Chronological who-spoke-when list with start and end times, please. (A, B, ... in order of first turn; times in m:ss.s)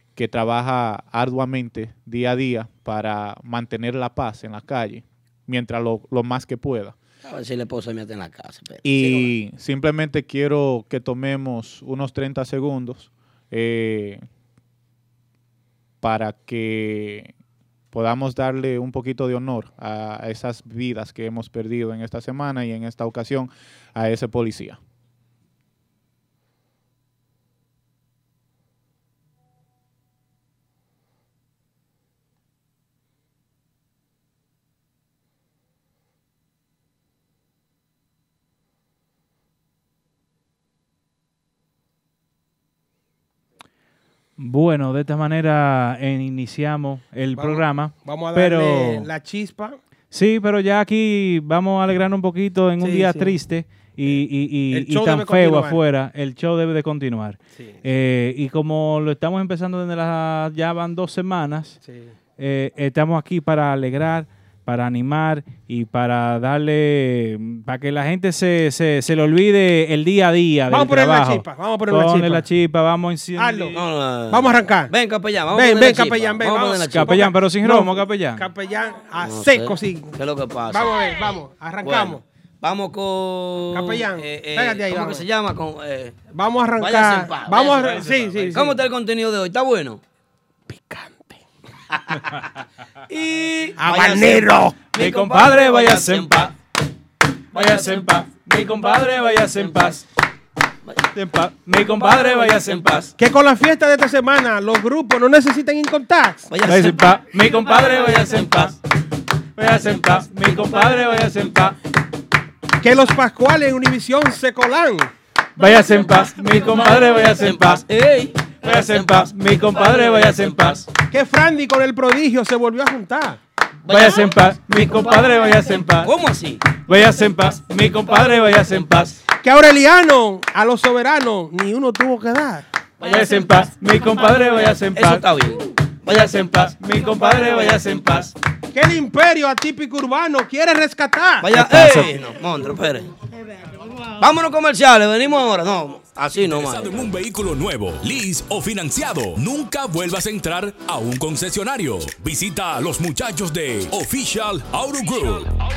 0:00.2-0:07.0 A
0:07.2-0:09.3 B
0:08.8-0:14.2 A
0:16.0-0:17.3 A
0:17.9-0:24.8 A
0:44.4-0:49.1 C
0:47.4-0:49.8 D
0:50.1-1:01.8 C
0:52.8-0:53.4 D
0:54.7-0:55.8 D
0:57.6-0:57.8 D
1:01.8-1:02.2 D
1:02.4-1:13.8 C
1:10.7-1:12.4 D
1:13.4-1:13.8 D
1:13.8-1:17.2 B
1:14.3-1:14.9 D
1:15.5-1:20.2 D
1:16.9-1:18.4 C
1:19.2-1:21.1 B
1:20.7-1:22.2 D
1:21.8-1:26.2 B
1:23.7-1:25.2 D
1:26.3-1:28.8 D
1:26.8-1:28.0 B
1:27.6-1:28.6 C
1:28.5-1:30.0 B
1:30.7-1:31.4 D
1:33.1-1:36.5 B
1:33.8-1:34.8 D
1:35.0-1:36.5 C
1:37.5-1:40.1 C
1:37.5-1:38.1 B
1:39.6-1:39.9 B
1:41.1-1:43.1 C
1:41.7-1:43.1 B
1:43.2-1:46.5 D
1:46.5-1:48.8 B
1:46.6-1:48.8 C
1:49.6-1:51.8 C
1:50.3-1:51.3 B
1:52.8-1:55.1 D
1:55.6-1:57.8 C
1:55.6-2:00.9 B
1:58.6-2:00.8 C
2:01.1-2:03.4 D
2:03.8-2:06.8 B
2:03.9-2:06.1 C
2:06.7-2:09.2 C
2:08.1-2:09.2 B
2:09.4-2:12.7 D
2:13.0-2:18.3 B
2:13.0-2:15.3 C
2:16.1-2:18.3 C
2:18.7-2:22.2 D
2:21.4-2:23.1 B
2:24.2-2:27.1 B
2:26.4-2:35.6 E